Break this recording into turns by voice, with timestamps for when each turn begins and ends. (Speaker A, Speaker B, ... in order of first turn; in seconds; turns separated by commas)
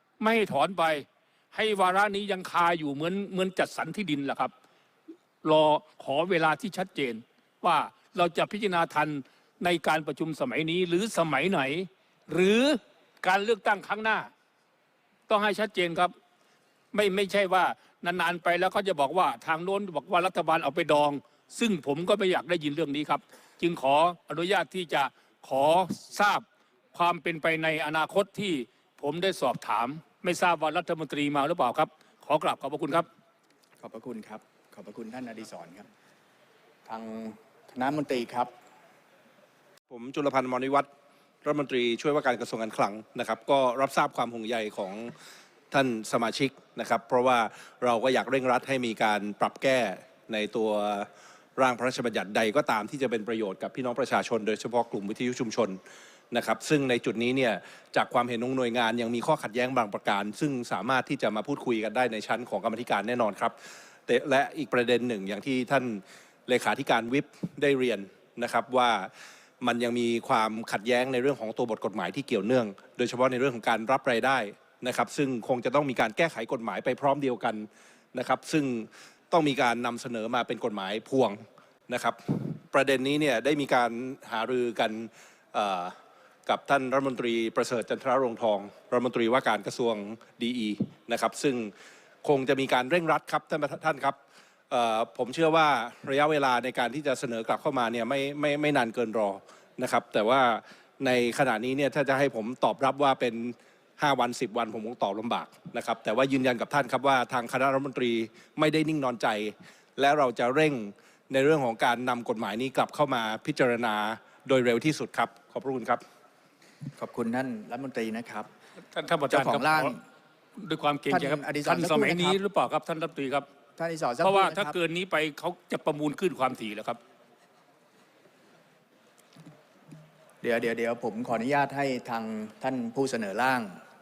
Speaker A: 0.2-4.5, Speaker A: 5.4-14.3, Speaker A: 15.3-16.1, Speaker A: 16.9-33.1, Speaker B: 33.8-35.9, Speaker B: 36.9-38.5, Speaker C: 39.9-40.9, Speaker C: 41.4-45.1, Speaker C: 45.7-55.8, Speaker C: 56.3-63.5, Speaker C: 64.1-69.1, Speaker C: 69.6-86.0, Speaker C: 86.5-91.7, Speaker C: 92.2-94.2, Speaker C: 94.7-116.0, Speaker B: 117.0-118.5, Speaker A: 118.9-120.0, Speaker B: 119.3-120.0, Speaker A: 120.6-123.5, Speaker B: 121.1-122.4, Speaker B: 123.8-124.8, Speaker A: 124.2-127.0, Speaker B: 130.4-133.8